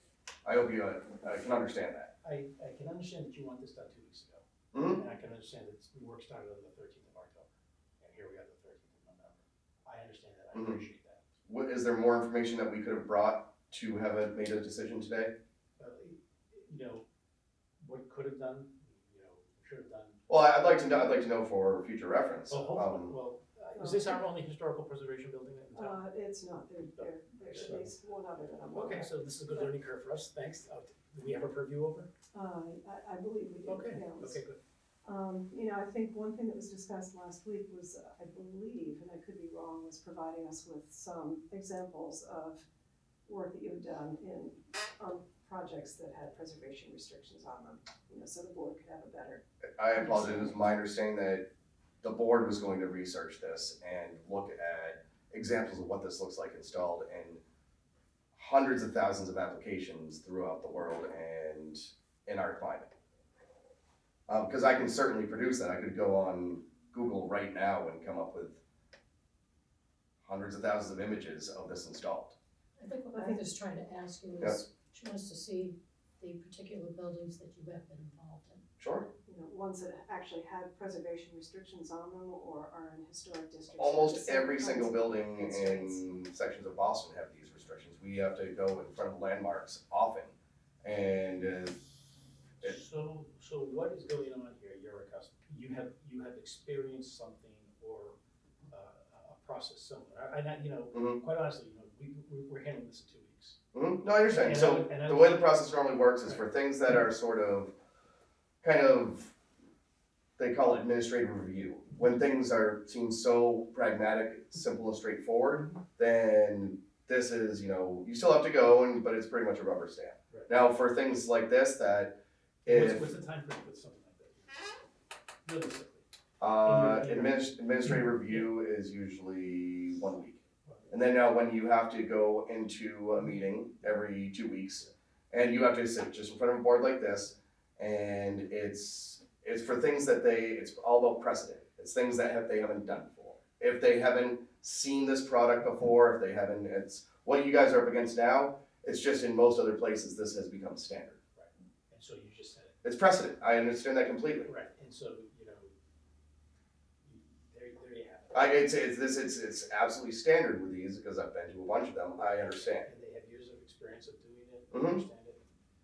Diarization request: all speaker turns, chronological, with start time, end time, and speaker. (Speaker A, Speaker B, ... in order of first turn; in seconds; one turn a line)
Speaker A: 0.5-2.1
Speaker B: 2.2-7.5
Speaker A: 4.7-5.0
Speaker B: 8.0-11.2
Speaker A: 11.5-15.3
Speaker B: 15.8-17.1
Speaker B: 17.8-20.2
Speaker A: 20.3-23.1
Speaker B: 22.5-26.0
Speaker C: 23.8-24.2
Speaker C: 25.7-29.1
Speaker B: 27.0-28.0
Speaker B: 28.7-32.1
Speaker C: 32.3-34.4
Speaker B: 33.7-34.6
Speaker C: 35.0-42.7
Speaker C: 43.3-49.4
Speaker A: 49.8-51.5
Speaker C: 50.0-50.5
Speaker A: 52.0-57.4
Speaker A: 58.4-62.9
Speaker A: 64.3-68.6
Speaker A: 70.2-72.4
Speaker D: 72.8-78.6
Speaker C: 73.1-73.4
Speaker A: 78.8-79.1
Speaker C: 79.3-86.0
Speaker A: 83.8-91.8
Speaker B: 92.6-98.2
Speaker B: 98.7-103.6
Speaker A: 100.9-101.2
Speaker A: 103.7-107.7
Speaker B: 104.3-106.5
Speaker A: 108.6-109.3
Speaker A: 110.4-123.1
Speaker B: 122.7-124.7
Speaker B: 125.5-126.1
Speaker A: 126.4-151.2
Speaker B: 126.6-128.5
Speaker B: 130.7-130.9
Speaker B: 151.4-152.8
Speaker A: 152.8-154.5
Speaker B: 154.4-155.7
Speaker B: 157.0-158.6
Speaker A: 158.3-162.9
Speaker B: 162.3-165.5
Speaker A: 164.7-165.0